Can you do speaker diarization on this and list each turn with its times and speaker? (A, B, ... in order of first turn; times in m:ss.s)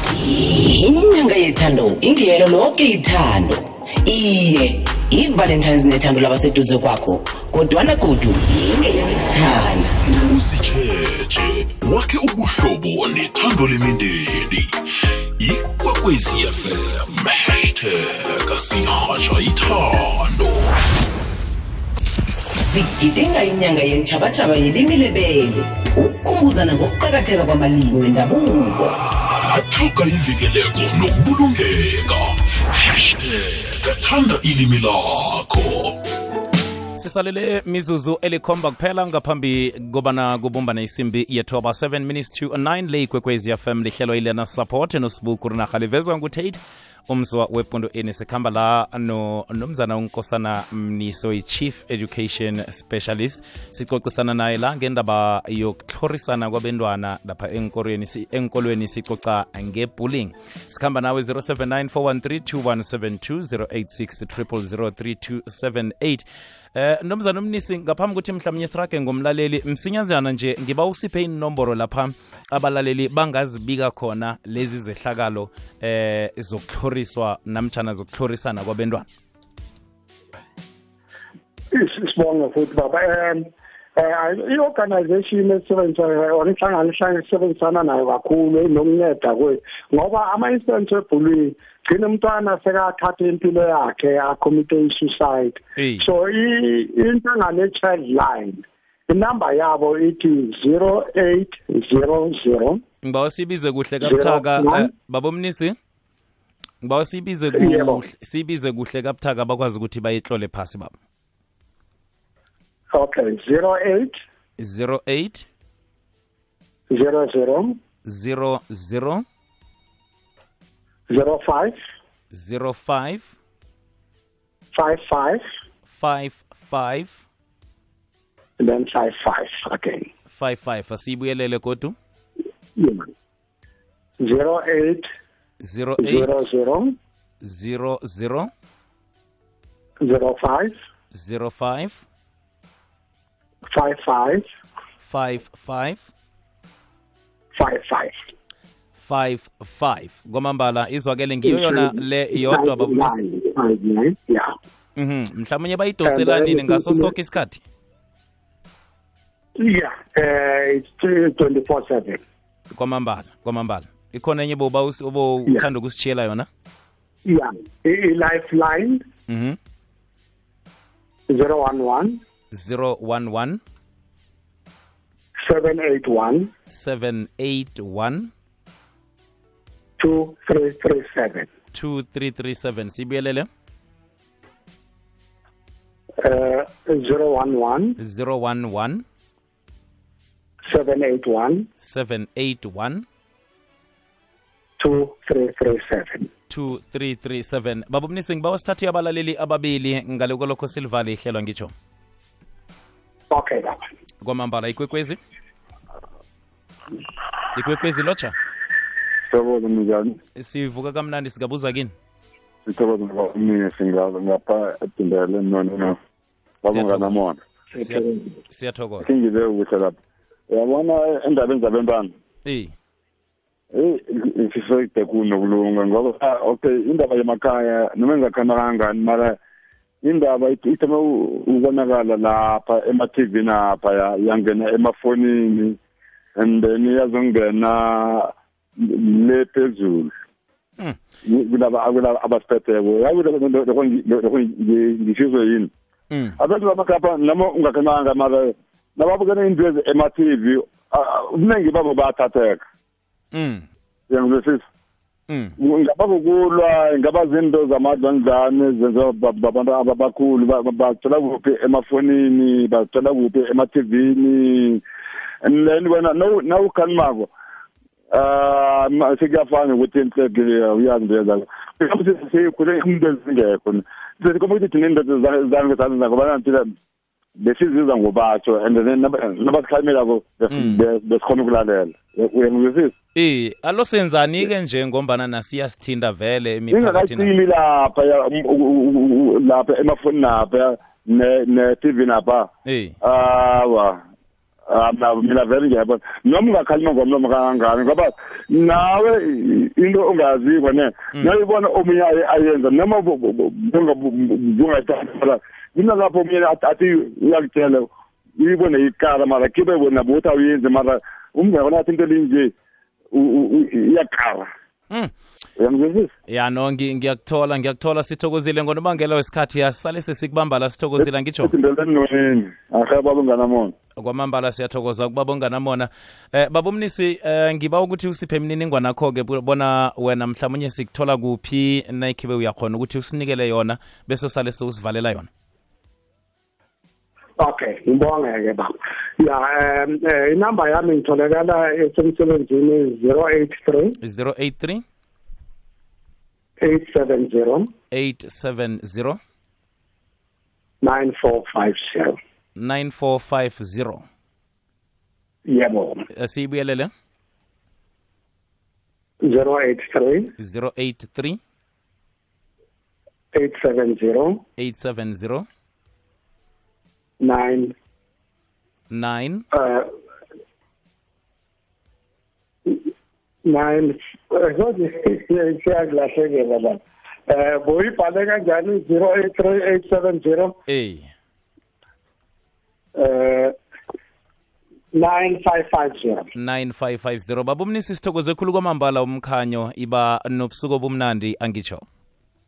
0:00.5-0:09.9 A
0:10.1-0:20.7 B
0:22.6-0:29.0 A
0:29.3-0:36.0 B
0:37.0-1:19.1 C
1:21.7-1:42.8 D
1:35.8-1:36.1 C
1:43.0-1:45.8 C
1:44.0-1:44.9 D
1:46.8-1:51.0 C
1:47.5-1:48.0 D
1:52.9-1:54.2 D
1:54.6-1:55.5 C
1:56.9-1:57.8 D
1:58.0-1:59.2 C
2:01.1-2:01.8 D
2:02.3-2:03.3 C
2:04.7-2:05.4 D
2:05.9-2:07.2 C
2:08.6-2:10.1 D
2:10.3-2:12.0 C
2:12.8-2:13.1 D
2:14.2-2:15.1 D
2:15.6-2:16.3 C
2:16.0-2:17.0 D
2:17.4-2:18.5 C
2:20.0-2:20.8 D
2:21.1-2:22.0 C
2:23.7-2:24.5 D
2:25.0-2:26.1 C
2:27.6-2:28.2 D
2:29.0-2:33.2 C
2:31.4-2:34.5 D
2:35.0-2:37.6 C
2:36.1-2:37.1 D
2:39.6-2:42.2 D
2:42.7-2:46.5 C
2:47.2-2:49.1 D
2:49.3-2:49.6 C
2:51.3-2:52.2 D
2:52.5-2:53.6 C
2:55.4-2:56.5 D
2:56.7-2:58.3 C
3:00.0-3:01.5 D
3:01.7-3:03.5 C
3:06.2-3:08.0 D
3:08.0-3:09.0 C
3:10.6-3:11.7 D
3:11.8-3:13.0 C
3:14.8-3:16.3 D
3:16.5-3:21.7 C
3:23.3-3:23.9 D
3:24.2-3:25.2 C
3:27.6-3:28.4 C
3:29.3-3:30.2 E
3:30.4-3:31.9 C
3:32.7-3:36.0 E
3:36.6-3:37.4 E
3:36.7-3:37.2 C
3:37.8-3:39.1 C
3:37.8-3:38.3 D
3:39.0-3:40.0 E
3:40.5-3:42.1 E
3:42.4-3:42.7 C
3:43.7-3:49.4 E
3:50.0-3:55.8 E
3:56.4-4:00.1 E
4:01.2-4:05.7 E
4:06.1-4:06.4 C
4:06.4-4:12.6 E
4:13.3-4:13.6 C
4:14.1-4:14.7 E
4:15.3-4:15.6 C
4:15.6-4:24.8 E
4:25.4-4:27.3 E
4:28.1-4:36.8 E
4:37.4-4:42.9 E
4:40.5-4:40.8 C
4:43.2-4:47.3 C
4:46.7-4:52.5 E
4:52.7-4:53.0 C
4:53.0-4:54.0 E
4:54.7-5:12.5 E
5:13.1-5:14.5 E
5:15.6-5:16.1 E
5:16.3-5:21.5 C
5:21.4-5:23.8 E
5:24.0-5:35.3 C
5:37.4-5:44.0 D
5:44.0-5:44.8 C
5:46.6-5:47.7 D
5:47.9-5:49.2 C
5:50.8-5:52.2 D
5:52.6-5:54.1 C
5:55.5-5:56.1 D
5:56.1-5:56.9 C
5:59.2-6:00.3 D
6:00.4-6:01.4 C
6:03.3-6:04.4 D
6:04.6-6:05.5 C
6:07.2-6:07.8 D
6:08.9-6:09.5 C
6:09.5-6:09.9 D
6:13.5-6:20.6 D
6:20.7-6:21.1 C
6:23.0-6:23.6 D
6:24.9-6:26.3 D
6:26.4-6:31.8 C